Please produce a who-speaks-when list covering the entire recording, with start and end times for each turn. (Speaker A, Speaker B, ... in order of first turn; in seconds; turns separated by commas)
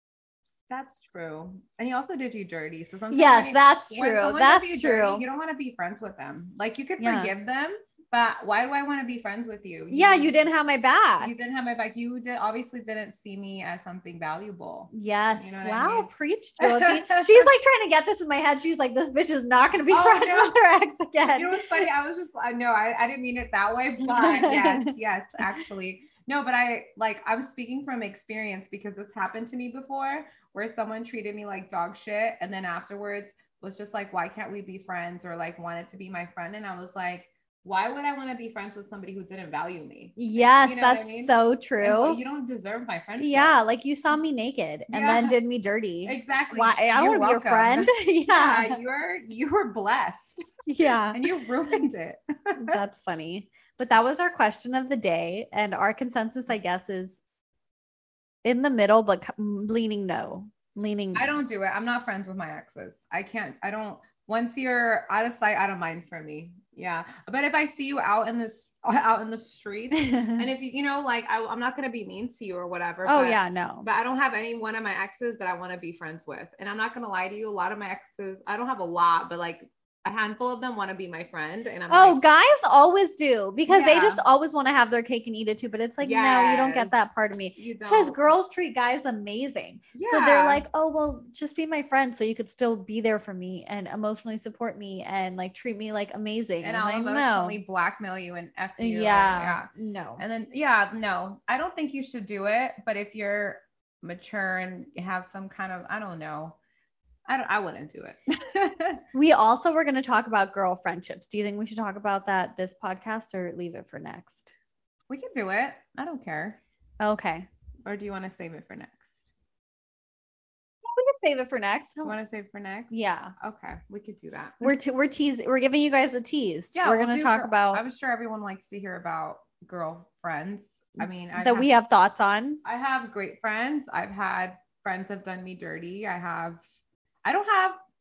Speaker A: 0.7-10.4, Speaker B: 3.1-5.2, Speaker B: 7.0-7.3, Speaker B: 9.9-11.4, Speaker A: 11.2-17.5, Speaker B: 14.9-21.8, Speaker A: 19.9-20.6, Speaker A: 21.3-43.6, Speaker B: 24.0-24.9, Speaker B: 40.2-42.2, Speaker B: 43.2-48.8, Speaker A: 44.9-45.4, Speaker A: 46.0-50.5, Speaker B: 50.7-51.3, Speaker A: 51.1-52.8, Speaker B: 52.6-57.2, Speaker B: 58.4-61.4, Speaker A: 61.1-82.2, Speaker B: 69.9-70.5, Speaker B: 73.0-73.9, Speaker B: 81.9-97.6, Speaker A: 83.7-84.2, Speaker A: 86.0-88.3, Speaker A: 89.9-90.6, Speaker A: 96.6-106.6, Speaker B: 98.8-100.2, Speaker A: 107.2-109.0, Speaker B: 109.1-114.5, Speaker A: 115.1-116.6, Speaker B: 117.0-117.5, Speaker A: 117.8-119.1, Speaker B: 120.8-122.2, Speaker A: 122.0-124.7, Speaker B: 122.9-123.3, Speaker B: 124.6-127.8, Speaker A: 126.7-131.7, Speaker B: 131.0-132.6, Speaker A: 132.6-136.6, Speaker A: 137.2-137.8